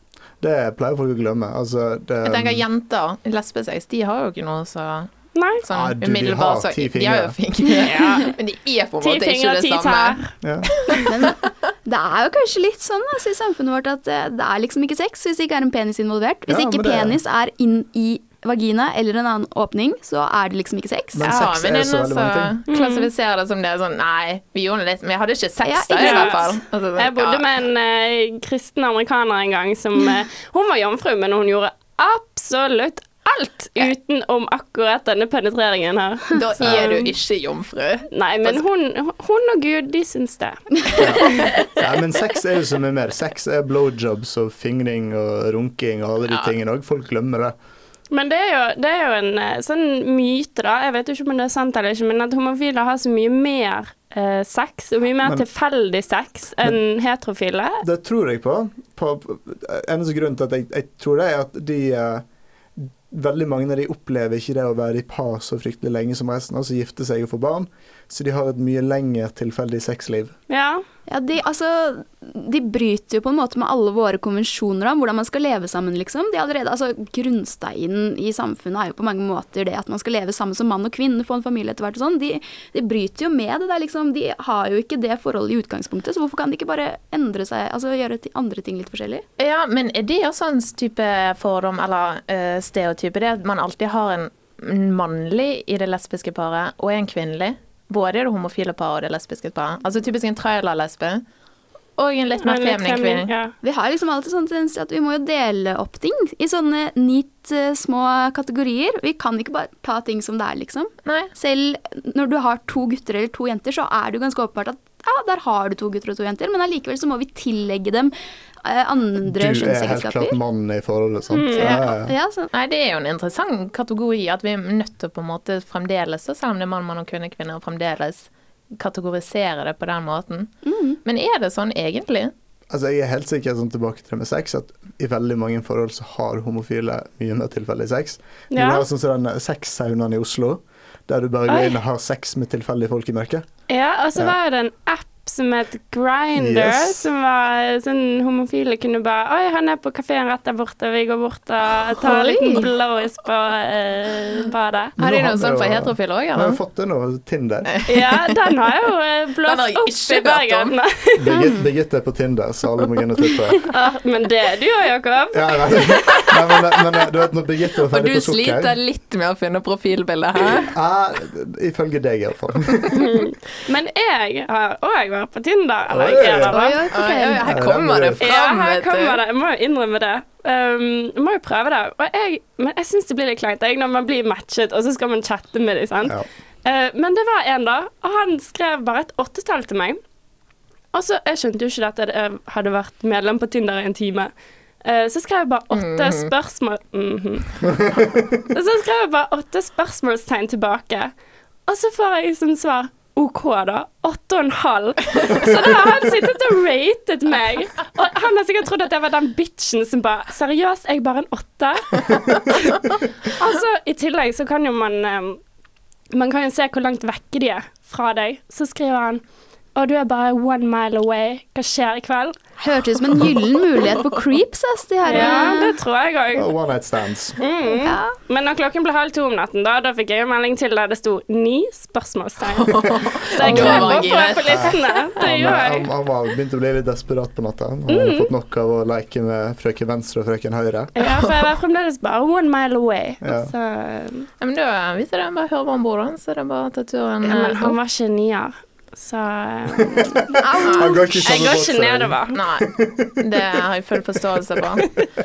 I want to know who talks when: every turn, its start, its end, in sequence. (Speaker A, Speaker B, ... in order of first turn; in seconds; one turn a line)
Speaker A: 0.4-2.6
Speaker B: 2.2-5.1
Speaker C: 5.3-5.6
Speaker B: 5.6-10.2
Speaker A: 5.7-7.3
Speaker C: 7.8-8.3
Speaker C: 9.0-10.3
Speaker A: 10.4-10.7
Speaker B: 10.7-11.1
Speaker D: 11.1-21.3
Speaker A: 16.5-17.2
Speaker A: 21.1-22.5
Speaker B: 21.2-27.4
Speaker C: 22.7-23.1
Speaker D: 25.6-26.6
Speaker C: 26.0-37.1
Speaker B: 36.3-38.6
Speaker C: 38.1-41.5
Speaker A: 41.0-47.5
Speaker B: 41.2-41.6
Speaker C: 48.1-57.8
Speaker A: 57.8-62.2
Speaker A: 62.8-70.3
Speaker C: 70.5-70.8
Speaker D: 71.1-89.2
Speaker B: 89.4-101.2
Speaker B: 102.0-103.3
Speaker C: 102.4-103.5
Speaker D: 103.6-120.3
Speaker B: 111.0-111.3
Speaker A: 119.2-122.1
Speaker C: 121.3-121.8
Speaker D: 121.6-122.5
Speaker B: 122.5-130.5
Speaker D: 130.6-131.0
Speaker B: 131.0-132.3
Speaker A: 132.7-143.4
Speaker C: 138.5-138.8
Speaker C: 141.5-141.8
Speaker C: 143.7-154.9
Speaker A: 146.3-147.1
Speaker D: 152.0-152.6
Speaker A: 155.0-157.7
Speaker B: 155.0-156.6
Speaker B: 157.7-158.6
Speaker C: 157.9-161.3
Speaker B: 159.4-160.7
Speaker A: 161.1-163.7
Speaker C: 163.7-166.3
Speaker A: 165.3-168.8
Speaker B: 167.9-170.7
Speaker A: 170.7-173.1
Speaker C: 172.9-176.8
Speaker A: 175.9-176.6
Speaker B: 176.5-179.2
Speaker D: 176.5-177.5
Speaker A: 177.4-178.2
Speaker C: 178.2-190.0
Speaker C: 190.9-194.3
Speaker C: 194.8-197.7
Speaker B: 195.7-196.3
Speaker A: 197.8-198.3
Speaker C: 198.5-201.1
Speaker C: 201.7-215.4
Speaker C: 216.1-219.2
Speaker C: 219.8-222.3
Speaker D: 222.6-225.8
Speaker C: 225.0-226.5
Speaker A: 226.3-227.4
Speaker C: 227.4-235.8
Speaker D: 227.7-228.1
Speaker B: 232.6-234.7
Speaker A: 233.4-240.9
Speaker C: 237.9-238.3
Speaker C: 240.9-244.3
Speaker B: 241.0-241.3
Speaker A: 243.2-243.5
Speaker B: 244.4-247.8
Speaker C: 247.2-252.4
Speaker A: 249.8-253.6
Speaker D: 250.6-251.0
Speaker B: 252.3-254.8